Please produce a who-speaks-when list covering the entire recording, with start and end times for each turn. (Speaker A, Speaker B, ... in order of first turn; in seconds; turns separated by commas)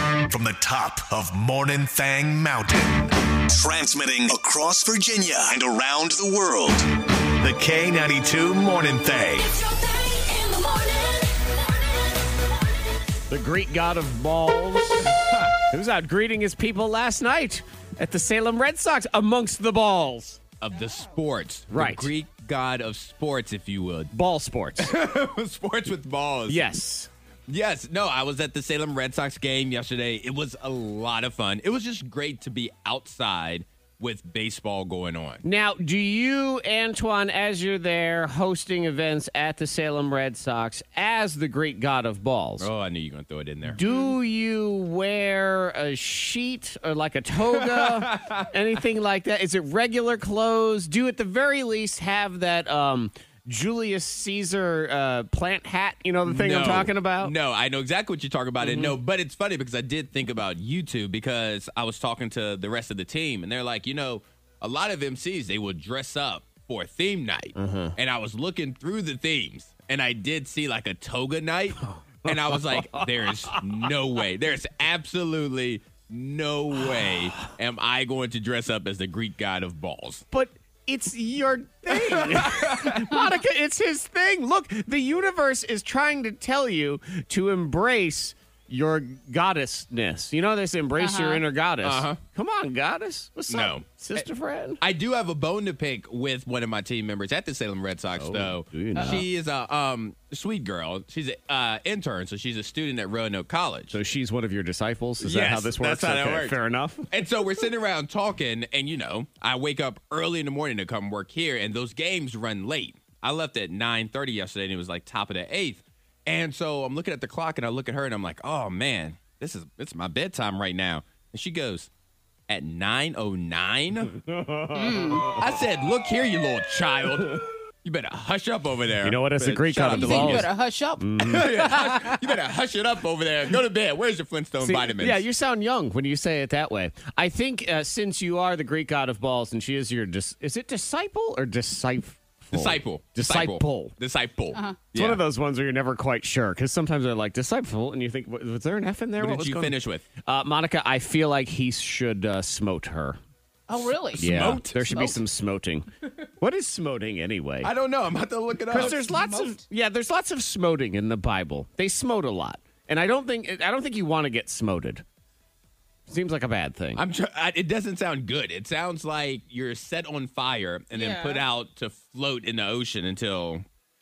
Speaker A: 0.3-9.6, Speaker B: 13.3-20.4, Speaker C: 20.6-24.1, Speaker D: 20.7-21.2, Speaker B: 21.7-22.1, Speaker B: 24.1-24.9, Speaker C: 24.8-26.7, Speaker B: 26.5-27.1, Speaker C: 27.5-35.4, Speaker B: 35.4-42.7, Speaker C: 42.6-43.8, Speaker B: 43.7-57.3, Speaker D: 43.8-44.2, Speaker C: 47.5-48.5, Speaker C: 56.2-80.2, Speaker B: 58.6-59.0, Speaker B: 67.6-68.0, Speaker B: 71.9-73.6, Speaker B: 80.3-94.8, Speaker C: 81.9-83.2, Speaker D: 91.0-91.4, Speaker C: 91.8-92.2, Speaker C: 93.5-94.2, Speaker C: 94.8-104.0, Speaker B: 98.2-99.3, Speaker B: 103.9-107.1, Speaker C: 105.2-106.6, Speaker C: 107.1-121.9, Speaker C: 122.5-124.2, Speaker B: 124.2-125.3, Speaker D: 124.7-125.4, Speaker C: 125.3-130.5, Speaker B: 129.0-131.5, Speaker D: 129.9-132.2, Speaker C: 131.2-135.2, Speaker B: 134.6-143.9, Speaker C: 142.5-145.2, Speaker D: 144.5-144.8, Speaker B: 144.9-153.2, Speaker C: 149.2-150.1, Speaker D: 153.7-155.2, Speaker C: 154.1-155.1, Speaker B: 154.2-155.8, Speaker B: 156.4-157.7, Speaker C: 157.6-159.1, Speaker B: 158.7-165.0, Speaker D: 158.8-159.6, Speaker B: 166.1-167.0, Speaker C: 167.0-173.6, Speaker D: 170.9-171.4